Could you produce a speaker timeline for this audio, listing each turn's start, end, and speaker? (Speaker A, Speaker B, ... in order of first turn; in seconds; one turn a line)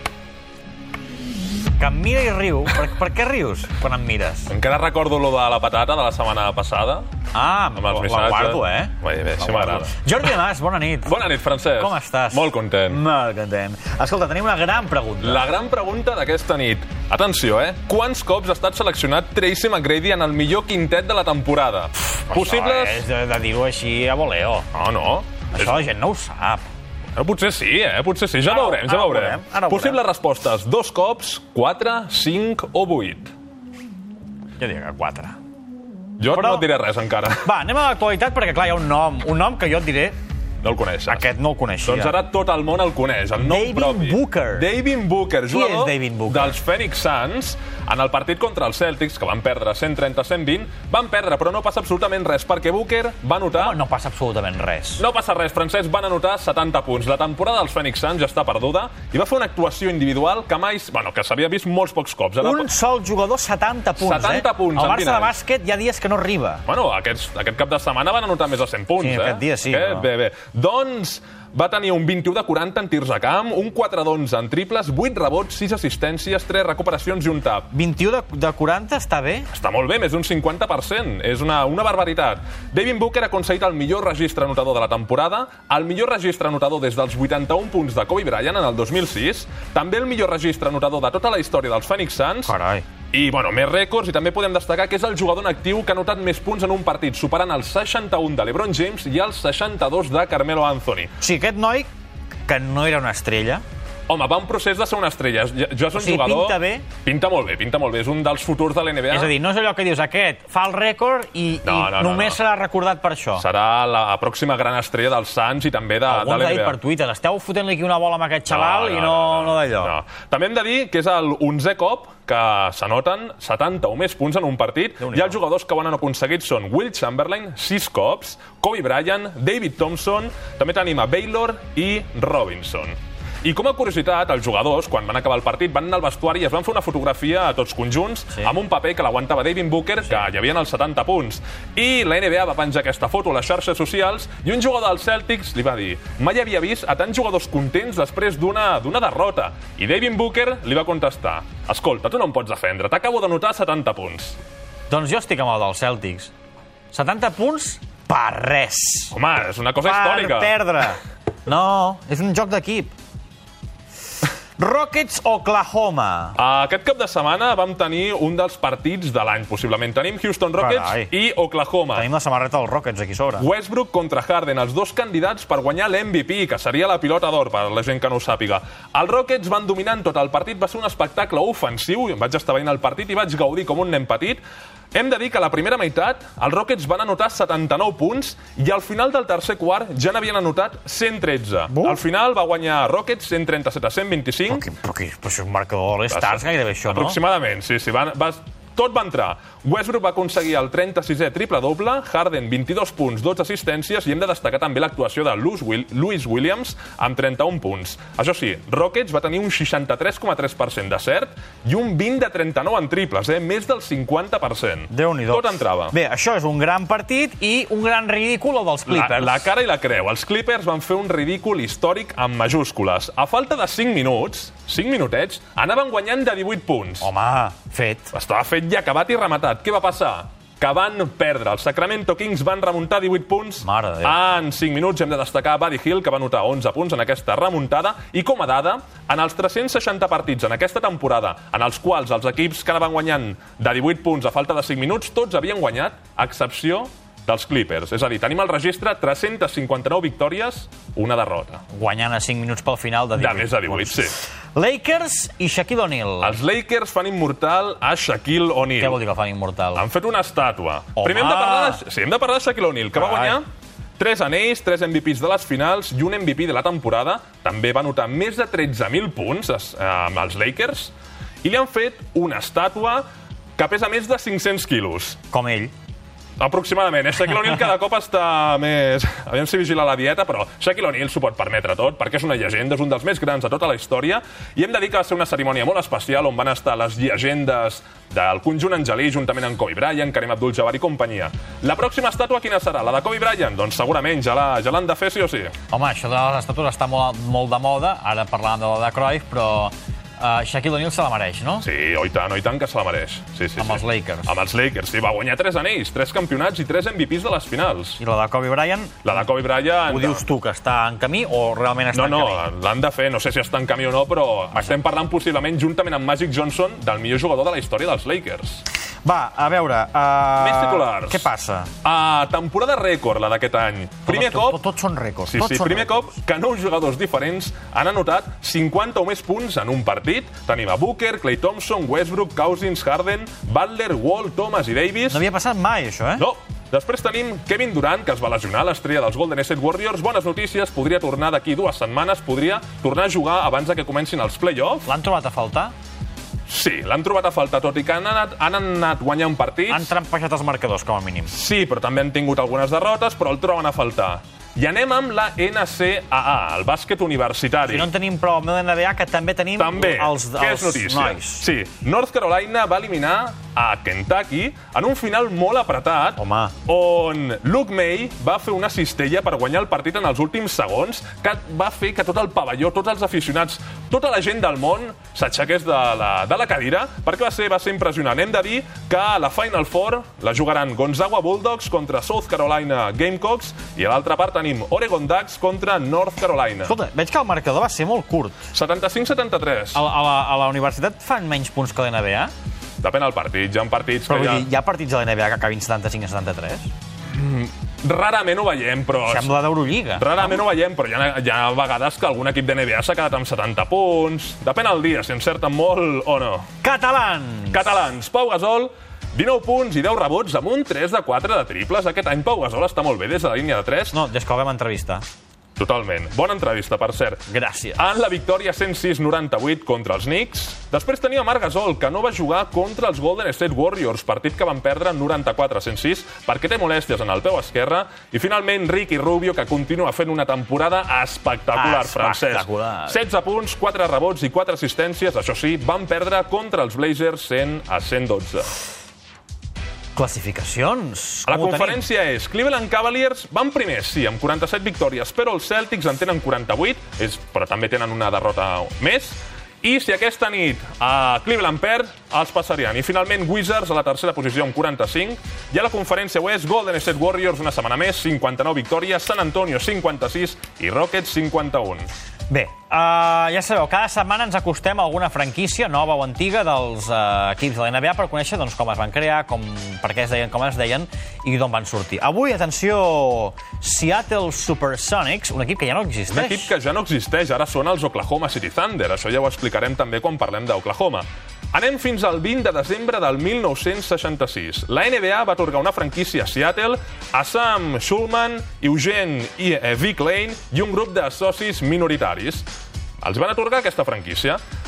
Speaker A: 1.8-4.5
Speaker B: 4.5-7.1
Speaker A: 7.3-11.2
Speaker B: 7.8-10.1
Speaker B: 11.1-13.0
Speaker A: 11.8-15.4
Speaker B: 15.2-23.0
Speaker A: 22.1-24.7
Speaker B: 24.7-25.8
Speaker A: 25.5-26.6
Speaker B: 27.2-33.3
Speaker A: 28.4-30.0
Speaker A: 34.6-35.4
Speaker B: 36.2-37.4
Speaker A: 36.3-36.7
Speaker A: 37.4-40.2
Speaker B: 40.6-41.3
Speaker A: 41.1-42.2
Speaker B: 41.8-53.8
Speaker A: 43.4-44.7
Speaker A: 45.5-46.6
Speaker A: 53.5-55.0
Speaker B: 55.0-62.7
Speaker A: 62.4-66.6
Speaker B: 64.0-65.3
Speaker B: 66.7-77.7
Speaker A: 69.0-70.1
Speaker A: 77.7-79.5
Speaker B: 79.5-92.5
Speaker A: 92.5-92.8
Speaker B: 93.1-101.1
Speaker A: 101.2-101.9
Speaker A: 102.5-103.6
Speaker B: 104.1-109.3
Speaker A: 105.9-106.8
Speaker A: 109.1-113.5
Speaker B: 111.6-112.4
Speaker B: 113.4-116.8
Speaker A: 116.0-119.9
Speaker B: 118.5-154.4
Speaker A: 125.0-125.4
Speaker A: 154.9-156.3
Speaker A: 156.9-159.2
Speaker B: 159.1-160.5
Speaker A: 159.8-162.9
Speaker A: 164.6-166.3
Speaker B: 166.3-172.1
Speaker A: 170.6-171.1
Speaker A: 171.9-173.5
Speaker B: 173.4-184.4
Speaker B: 184.9-194.6
Speaker A: 191.7-192.0
Speaker A: 194.5-197.2
Speaker B: 196.1-215.9
Speaker A: 214.9-219.5
Speaker B: 218.9-227.1
Speaker A: 227.0-228.1
Speaker B: 228.1-251.6
Speaker A: 233.6-234.2
Speaker A: 251.7-256.4
Speaker B: 253.2-254.2
Speaker B: 256.2-259.0
Speaker A: 258.8-259.8
Speaker B: 259.7-263.4
Speaker A: 261.0-261.8
Speaker A: 262.9-263.4
Speaker B: 264.0-273.0
Speaker B: 273.6-275.2
Speaker A: 275.3-275.7
Speaker B: 276.4-295.5
Speaker A: 295.7-301.6
Speaker B: 301.6-308.0
Speaker A: 303.6-304.3
Speaker A: 308.0-309.0
Speaker B: 309.0-310.2
Speaker A: 309.9-312.4
Speaker B: 311.9-318.6
Speaker A: 319.0-321.7
Speaker B: 320.4-321.3
Speaker B: 321.8-324.6
Speaker A: 324.1-326.1
Speaker B: 325.3-335.2
Speaker A: 335.1-336.2
Speaker B: 336.2-344.9
Speaker A: 344.8-345.7
Speaker B: 346.5-349.9
Speaker A: 349.7-351.3
Speaker B: 351.3-357.9
Speaker A: 357.6-361.5
Speaker B: 359.6-386.7
Speaker A: 366.2-366.5
Speaker A: 386.6-388.4
Speaker B: 388.5-389.8
Speaker A: 389.7-392.3
Speaker B: 392.8-394.4
Speaker A: 394.1-396.7
Speaker B: 397.1-399.3
Speaker A: 399.0-400.4
Speaker B: 400.0-406.5
Speaker A: 406.6-407.7
Speaker B: 407.5-414.0
Speaker A: 413.9-415.0
Speaker B: 415.6-438.5
Speaker A: 417.3-417.9
Speaker A: 431.5-433.0
Speaker A: 439.9-441.8
Speaker B: 441.3-461.9
Speaker A: 462.3-476.5
Speaker B: 476.1-492.5
Speaker B: 493.0-494.4